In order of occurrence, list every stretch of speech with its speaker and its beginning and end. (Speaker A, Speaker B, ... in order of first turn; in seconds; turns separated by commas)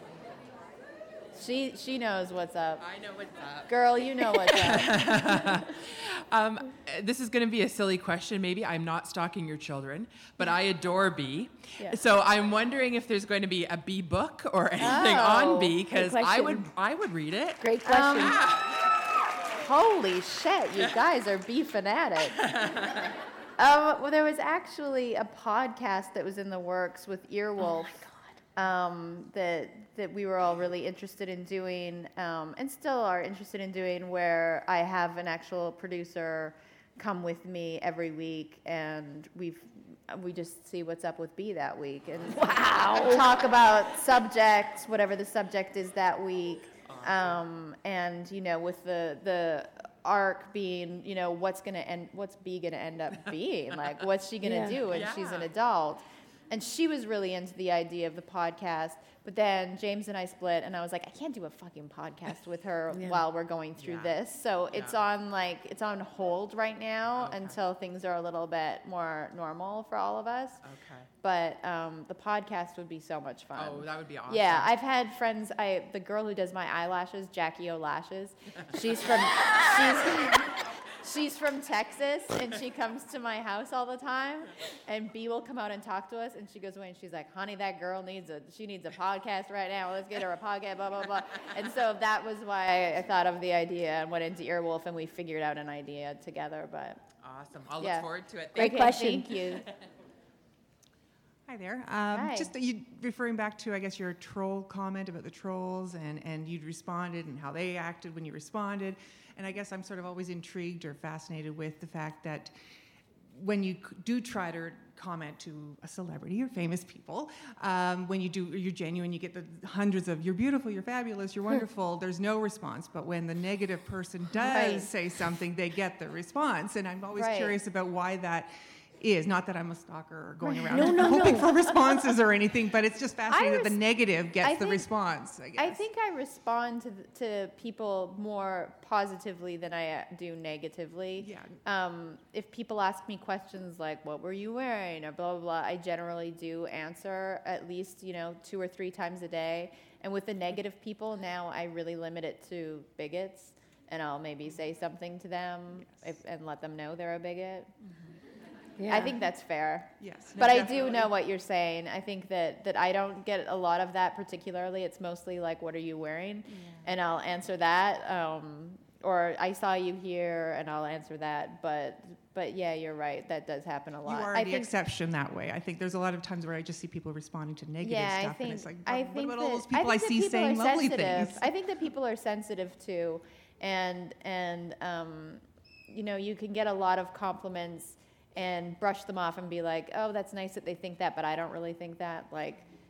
Speaker A: 1.4-2.8, Speaker B: 2.8-3.7, Speaker A: 3.7-5.5, Speaker B: 4.2-17.6, Speaker A: 14.8-15.8, Speaker C: 15.9-16.7, Speaker C: 17.6-18.4, Speaker A: 17.9-18.4, Speaker B: 18.2-18.7, Speaker A: 19.5-22.4, Speaker B: 22.4-23.1, Speaker A: 23.6-28.0, Speaker C: 27.6-28.4, Speaker A: 28.6-70.6, Speaker C: 42.3-43.3, Speaker B: 46.9-47.3, Speaker C: 54.4-54.8, Speaker B: 54.9-55.5, Speaker C: 62.9-63.2, Speaker B: 63.8-64.2, Speaker B: 64.7-65.0, Speaker B: 67.1-67.6, Speaker B: 70.6-71.1, Speaker A: 71.2-97.1, Speaker B: 73.6-74.7, Speaker B: 97.2-98.9, Speaker A: 97.8-99.7, Speaker C: 98.5-99.4, Speaker D: 101.5-112.5, Speaker A: 102.1-102.5, Speaker D: 113.3-135.8, Speaker A: 124.4-124.9, Speaker A: 127.2-127.5, Speaker C: 130.7-131.5, Speaker A: 130.7-131.8, Speaker A: 133.3-133.8, Speaker A: 134.4-134.9, Speaker A: 135.6-157.7, Speaker D: 141.2-141.6, Speaker C: 158.8-159.2, Speaker A: 158.9-174.7, Speaker D: 160.0-161.1, Speaker D: 174.1-181.5, Speaker A: 177.8-192.7